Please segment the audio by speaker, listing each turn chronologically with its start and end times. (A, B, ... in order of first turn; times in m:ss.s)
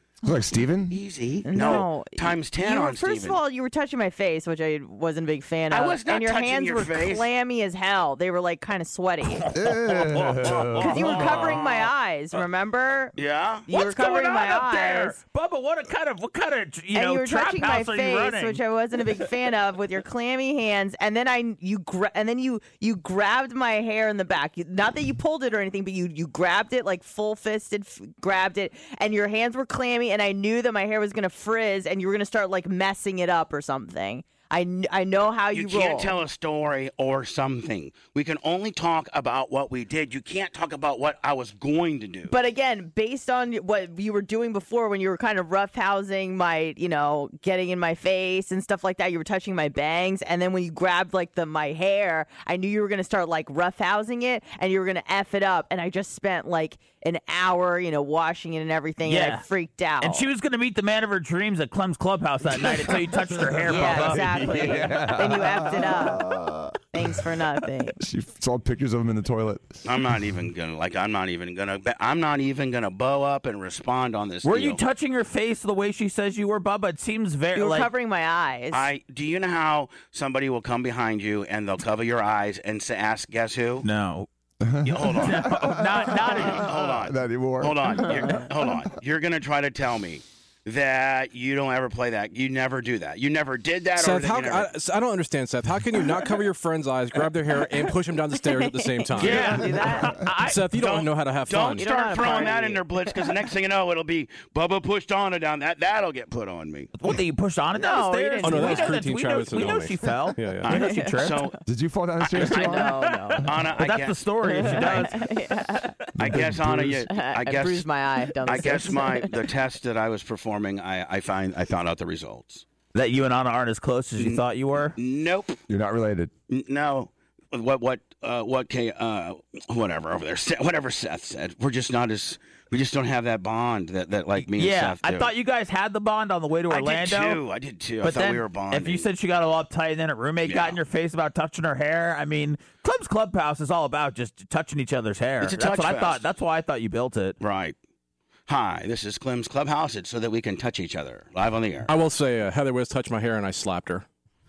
0:00.2-0:01.0 A
0:00.9-0:03.4 B
0:01.5-0:09.4 C
0:05.7-0:07.3 B
0:09.2-0:11.9 D
0:09.5-0:11.1 A
0:10.0-0:11.8 B
0:10.8-0:13.2 C
0:13.2-0:13.7 B
0:13.7-0:15.2 C
0:13.7-0:18.6 D
0:16.9-0:36.2 C
0:35.5-0:42.4 B
0:42.3-1:00.2 C
0:59.1-0:59.5 D
1:00.0-1:04.9 D
1:02.8-1:06.8 A
1:03.7-1:06.3 C
1:06.9-1:08.0 C
1:08.0-1:09.8 A
1:09.8-1:14.8 B
1:14.4-1:17.9 D
1:17.6-1:18.9 C
1:18.7-1:23.9 B
1:23.8-1:24.3 D
1:24.6-1:28.7 A
1:24.8-1:25.5 B
1:25.2-1:26.7 D
1:26.3-1:34.7 B
1:34.0-1:41.9 E
1:38.4-1:40.2 C
1:39.2-1:40.6 D
1:39.2-1:39.6 B
1:40.7-1:46.9 B
1:41.8-1:43.3 C
1:47.0-1:51.4 D
1:47.8-1:49.0 C
1:48.4-1:50.7 E
1:50.6-1:51.6 B
1:50.7-1:51.5 C
1:51.7-1:53.0 A
1:52.2-1:54.2 B
1:52.4-1:53.5 C
1:53.1-1:55.5 D
1:54.4-1:56.0 C
1:56.2-1:57.0 A
1:56.2-1:57.9 B
1:57.1-1:59.3 C
1:58.4-2:02.6 B
2:02.9-2:05.0 D
2:05.0-2:05.6 B
2:05.7-2:06.3 A
2:06.5-2:15.3 B
2:14.4-2:17.4 D
2:16.7-2:19.1 B
2:18.0-2:27.4 D
2:20.4-2:20.8 B
2:25.4-2:26.2 B
2:27.4-2:27.8 B
2:28.5-2:31.9 B
2:31.9-2:34.0 E